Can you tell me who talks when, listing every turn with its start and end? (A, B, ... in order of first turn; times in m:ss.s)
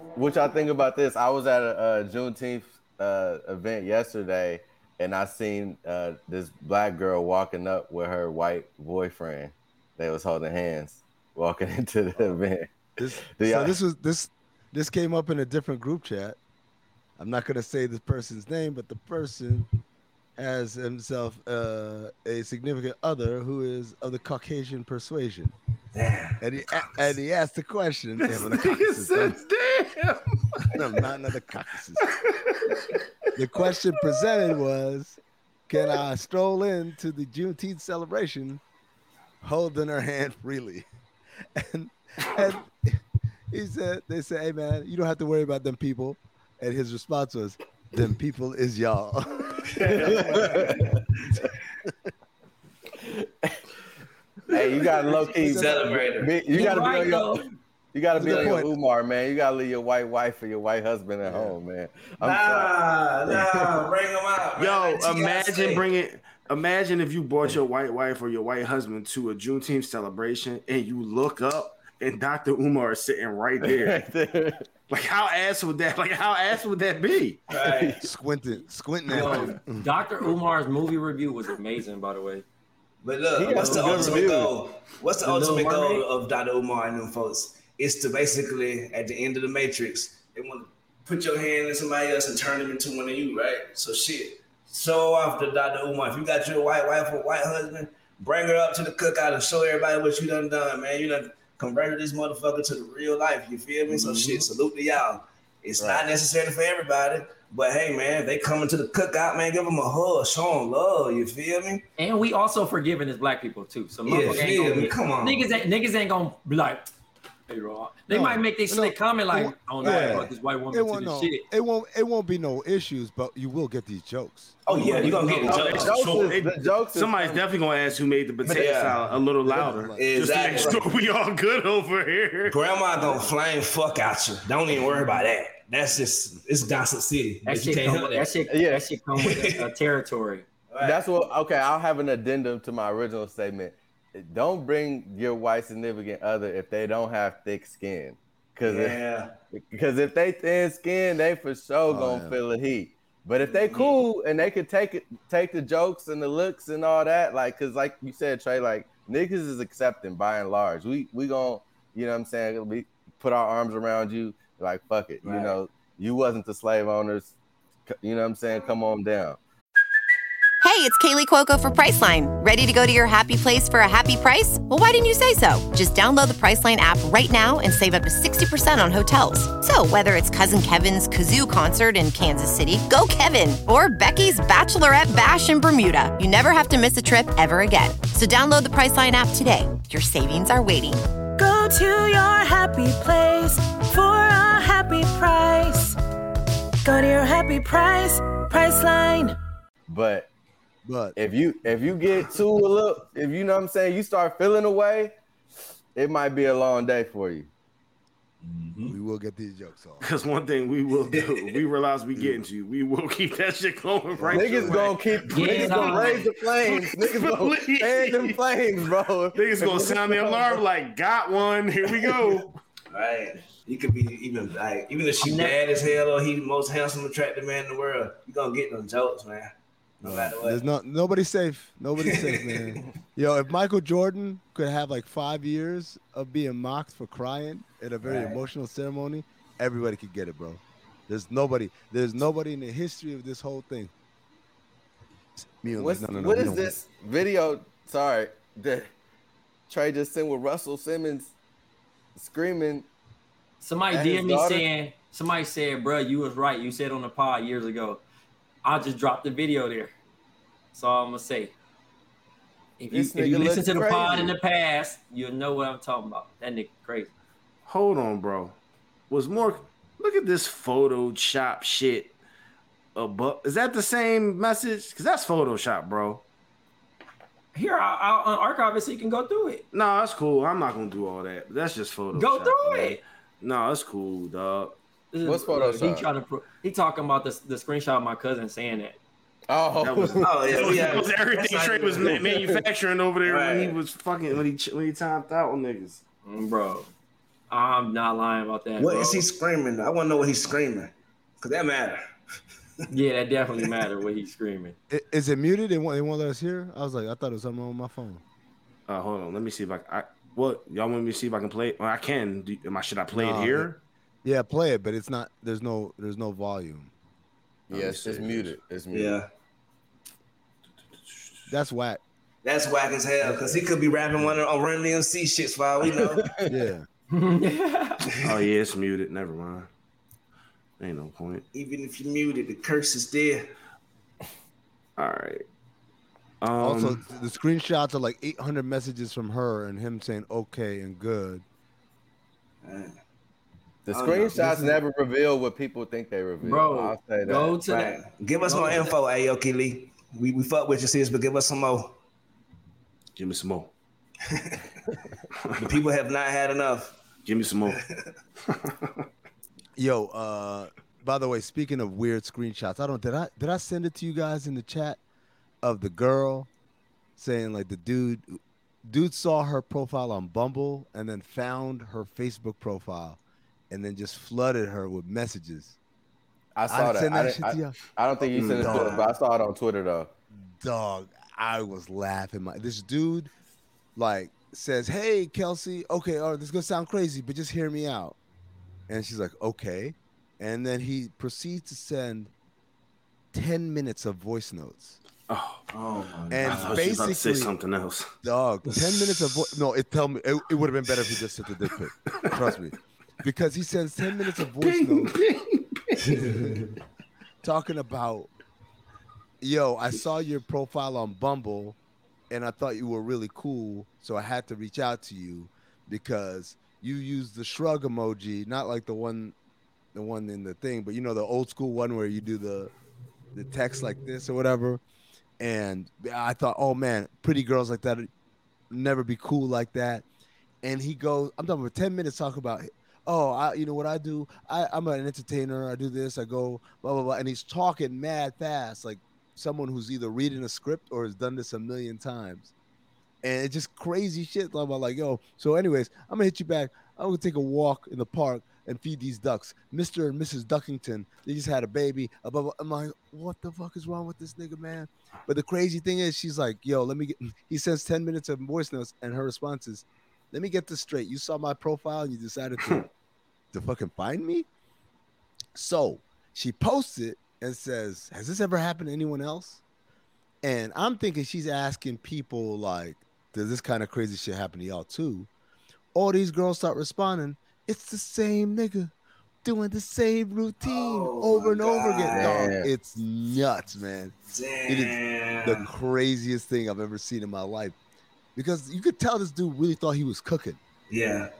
0:00.2-0:12.7 A
0:13.0-0:16.4 B
0:13.3-0:13.8 A
0:17.2-0:19.7 B
0:20.4-0:25.5 B
0:25.9-0:26.4 C
0:26.4-0:29.4 B
0:28.2-0:30.7 D
0:30.7-0:32.1 B
0:32.0-0:33.3 D
0:33.4-0:35.2 B
0:35.7-0:38.6 B
0:39.4-0:40.8 B
0:41.6-0:50.9 B
0:49.7-0:51.0 C
0:49.8-0:51.5 A
0:53.0-0:53.6 A
0:54.5-1:02.7 A
0:54.8-0:56.3 C
0:55.1-0:56.0 B
0:56.5-0:57.4 E
0:58.2-0:58.7 B
1:01.2-1:01.5 B
1:02.2-1:05.8 C
1:03.3-1:03.8 A
1:04.6-1:14.0 D
1:13.6-1:14.7 A
1:14.9-1:17.4 D
1:17.5-1:18.0 C
1:17.5-1:18.0 A
1:18.0-1:19.9 B
1:19.1-1:22.4 E
1:23.0-1:51.8 C
1:23.4-1:24.5 A
1:23.5-1:24.2 E
1:23.8-1:24.3 B
1:25.2-1:26.0 E
1:43.9-1:44.4 E
1:45.8-1:46.0 A
1:52.0-1:56.9 E
1:54.0-1:55.5 C
1:57.5-2:01.4 E
1:58.1-2:04.6 B
1:59.8-2:00.2 C
1:59.8-2:00.2 A
2:04.6-2:06.3 C
2:04.7-2:05.9 E
2:05.2-2:07.4 A
2:06.2-2:12.6 D
2:08.4-2:09.0 C
2:09.5-2:10.0 B
2:10.0-2:10.8 C
2:12.5-2:18.3 C
2:17.4-2:20.4 E
2:18.5-2:18.9 A
2:20.7-2:21.1 C
2:20.8-2:29.0 A
2:28.6-2:29.3 C
2:29.5-2:47.4 A
2:31.9-2:32.4 B
2:33.4-2:34.0 C
2:45.2-2:45.6 C
2:47.9-2:49.4 A
2:50.6-3:11.0 F
3:11.4-3:16.0 G
3:16.8-3:19.4 G
3:19.9-3:20.3 A
3:20.8-3:21.1 B
3:21.2-3:25.2 A
3:25.9-3:27.5 A
3:28.4-3:28.9 C
3:28.9-3:30.1 B
3:30.0-3:38.4 D
3:31.1-3:31.5 C
3:34.2-3:34.9 B
3:34.2-3:40.6 A
3:35.3-3:36.3 E
3:39.3-3:42.6 D
3:42.9-3:50.6 C
3:45.2-3:45.6 E
3:50.0-4:03.9 B
3:52.0-3:52.7 C
3:58.0-3:58.4 C
4:05.4-4:06.7 B
4:05.8-4:08.9 A
4:09.7-4:11.3 A
4:12.2-4:12.9 A
4:13.6-4:18.0 E
4:13.9-4:14.7 A
4:18.6-4:19.9 E
4:20.7-4:21.5 E
4:22.8-4:27.1 E
4:22.9-4:24.4 A
4:27.6-4:28.5 D
4:29.1-4:32.1 D
4:32.9-4:36.2 D
4:37.5-4:39.6 E
4:39.7-4:44.8 D
4:42.1-4:43.0 E
4:45.1-4:49.0 E
4:45.2-4:46.1 A
4:49.5-4:50.9 A
4:49.8-4:56.0 D
4:50.2-4:52.3 C
4:52.0-4:52.6 A
4:53.2-4:53.8 C
4:56.2-4:56.9 E
4:57.5-4:59.2 E
4:58.8-5:02.0 C
5:02.9-5:04.8 E
5:04.9-5:08.2 B
5:08.9-5:13.8 D
5:13.1-5:13.7 B
5:14.2-5:16.9 B
5:17.7-5:19.2 A
5:17.7-5:18.6 D
5:18.9-5:19.3 C
5:21.1-5:21.4 D
5:21.5-5:22.0 B
5:22.4-5:26.3 C
5:25.9-5:26.5 A
5:26.4-5:26.8 B
5:27.1-5:28.0 E
5:28.2-5:29.7 D
5:30.8-5:31.4 D
5:31.5-5:33.4 C
5:35.0-5:35.4 D
5:36.4-5:37.0 D
5:36.6-5:41.4 B
5:42.6-5:43.0 C
5:43.8-5:47.5 A
5:43.9-5:44.8 C
5:46.4-5:47.9 E
5:47.7-5:52.0 C
5:48.4-5:48.8 E
5:53.2-5:53.7 D
5:54.3-5:54.6 C
5:55.6-5:57.0 C
5:57.2-5:57.8 D
5:57.7-5:58.1 C
5:58.4-5:58.9 D
5:59.8-6:05.0 B
6:05.6-6:06.5 B
6:07.2-6:13.2 B
6:13.7-6:15.8 B
6:16.5-6:20.1 A
6:16.7-6:17.8 B
6:18.3-6:18.8 D
6:18.4-6:19.1 B
6:20.6-6:23.3 B
6:24.0-6:28.2 B
6:28.9-6:32.3 B
6:33.3-6:35.0 B
6:35.3-6:35.6 D
6:35.7-6:37.0 C
6:36.3-6:37.5 B
6:36.4-6:38.1 D
6:38.2-6:45.2 B
6:44.6-6:46.1 D
6:46.0-6:46.7 C
6:46.3-6:46.6 B
6:47.4-6:48.3 B
6:49.4-6:51.8 B
6:52.3-6:59.4 B
6:59.9-7:02.7 B
7:03.3-7:04.8 B
7:05.4-7:08.1 B
7:08.7-7:10.0 B
7:10.6-7:22.5 B
7:23.2-7:42.9 B
7:43.5-7:44.5 B
7:45.6-7:49.6 B
7:50.4-7:55.3 B
7:55.9-7:58.9 B
7:59.4-8:04.1 B
8:00.6-8:02.5 C
8:02.1-8:02.7 A
8:04.3-8:05.7 C
8:04.7-8:07.8 B
8:08.4-8:10.6 B
8:10.9-8:11.3 C